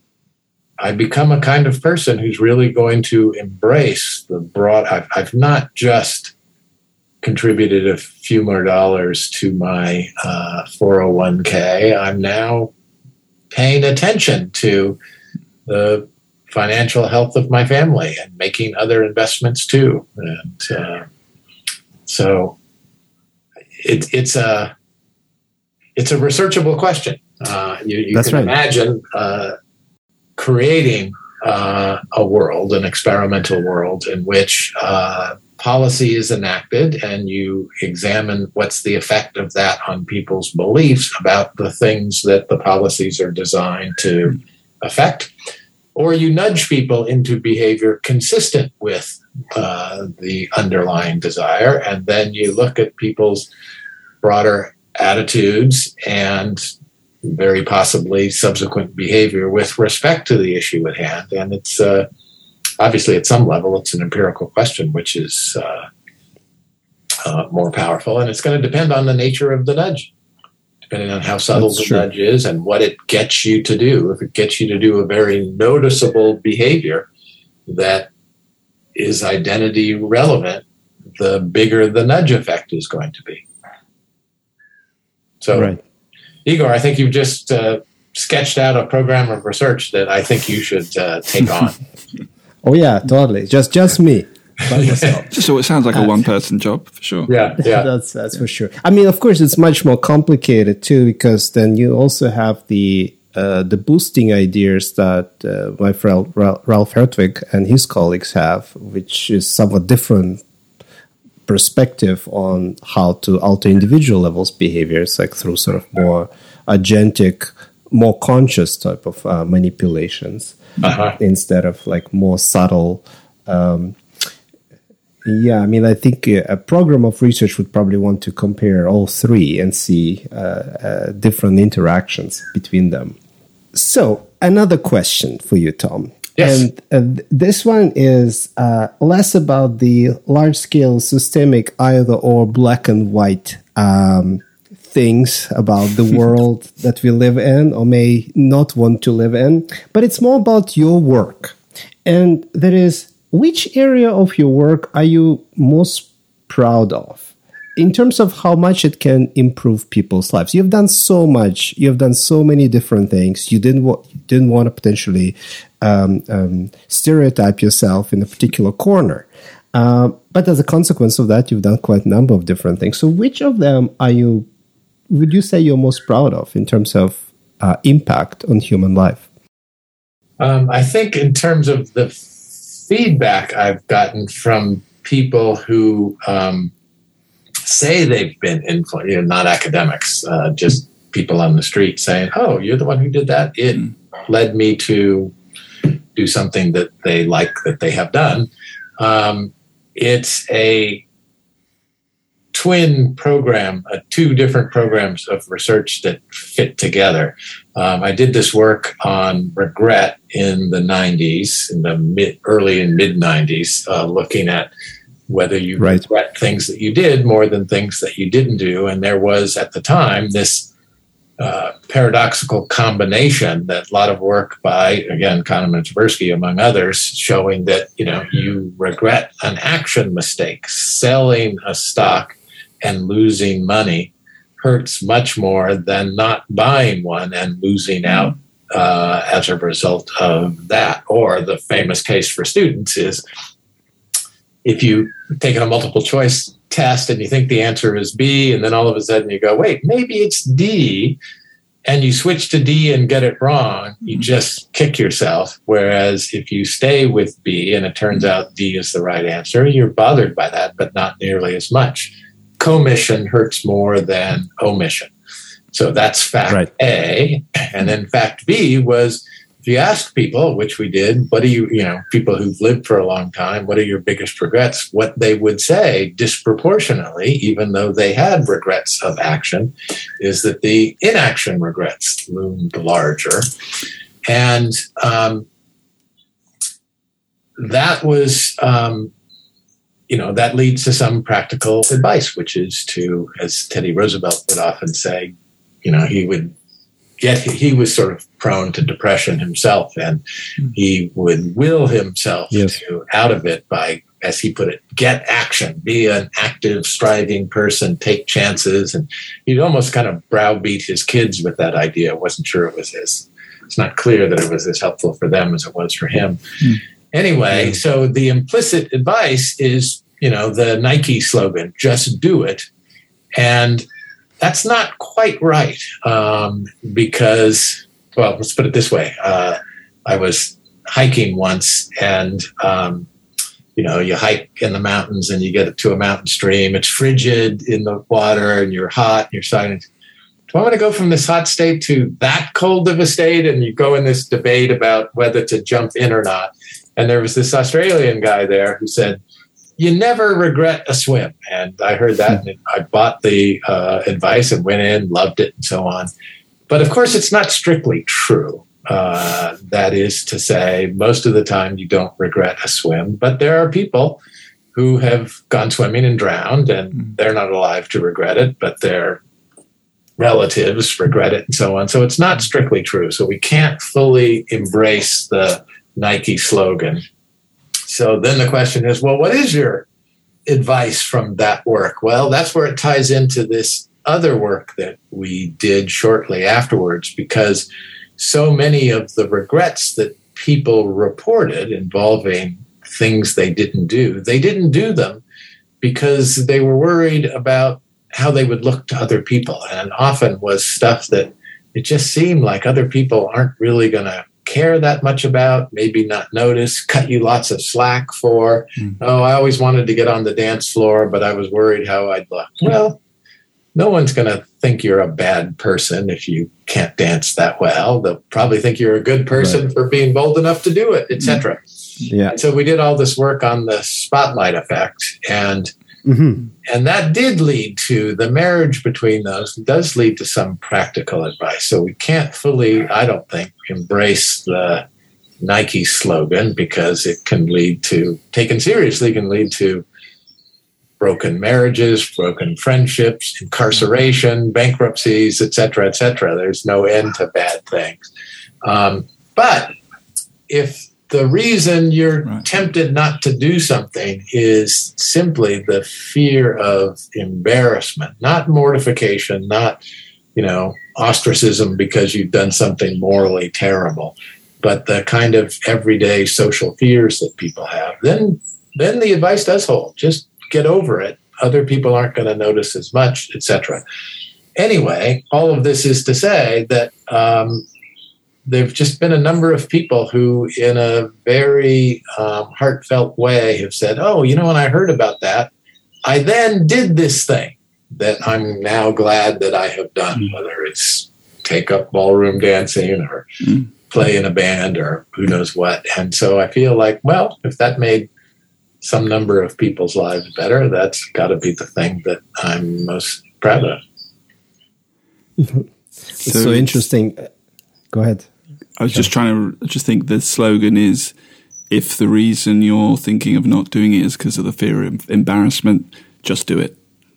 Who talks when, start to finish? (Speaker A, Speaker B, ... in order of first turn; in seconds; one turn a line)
Speaker A: 0.8-6.3
Speaker A: 7.2-12.7
Speaker A: 13.5-15.0
Speaker A: 15.7-21.1
Speaker A: 22.1-22.6
Speaker A: 23.8-24.7
Speaker A: 25.9-29.5
Speaker B: 28.1-28.5
Speaker A: 30.4-45.3
Speaker A: 45.9-53.5
Speaker A: 54.2-56.6
Speaker A: 57.2-62.0
Speaker A: 62.8-65.8
Speaker A: 67.2-70.1
Speaker A: 70.9-77.1
Speaker B: 71.5-72.0
Speaker A: 77.7-78.1
Speaker A: 78.9-80.6
Speaker A: 81.2-83.4
Speaker A: 85.4-85.7
Speaker B: 85.5-85.8
Speaker A: 86.4-91.8
Speaker B: 92.6-95.3
Speaker A: 94.7-95.2
Speaker C: 95.3-97.3
Speaker A: 97.3-97.9
Speaker B: 97.6-110.4
Speaker B: 111.5-124.0
Speaker A: 120.8-121.1
Speaker B: 125.2-133.2
Speaker B: 133.7-174.4
Speaker A: 136.4-136.6
Speaker B: 175.1-179.2
Speaker A: 180.4-186.7
Speaker A: 187.6-195.3
Speaker A: 196.2-201.0
Speaker A: 202.5-214.7
Speaker A: 215.3-220.7
Speaker A: 221.4-243.2
Speaker A: 244.6-251.2
Speaker A: 251.8-265.1
Speaker A: 265.7-283.5
Speaker A: 284.3-285.4
Speaker A: 287.6-289.1
Speaker A: 290.1-295.3
Speaker A: 295.8-296.5
Speaker A: 297.2-316.4
Speaker A: 317.1-322.6
Speaker A: 323.4-323.9
Speaker A: 324.4-333.1
Speaker A: 333.8-339.9
Speaker A: 340.5-349.2
Speaker A: 349.8-356.1
Speaker A: 356.7-364.2
Speaker A: 364.7-369.2
Speaker A: 370.2-377.0
Speaker A: 377.9-379.9
Speaker A: 380.4-387.7
Speaker A: 388.2-395.2
Speaker A: 395.8-413.0
Speaker A: 413.7-421.6
Speaker B: 422.1-422.3
Speaker A: 422.3-425.7
Speaker B: 426.0-426.4
Speaker A: 426.6-434.8
Speaker A: 435.4-439.8
Speaker A: 441.0-448.0
Speaker A: 448.6-449.7
Speaker A: 450.5-459.8
Speaker A: 460.4-473.8
Speaker A: 474.6-477.6
Speaker A: 478.4-485.5
Speaker A: 486.0-493.2
Speaker A: 493.9-498.1
Speaker A: 498.8-503.8
Speaker B: 505.4-505.6
Speaker C: 506.2-506.8
Speaker B: 506.2-507.3
Speaker B: 507.9-508.3
Speaker C: 508.8-511.1
Speaker C: 511.7-516.8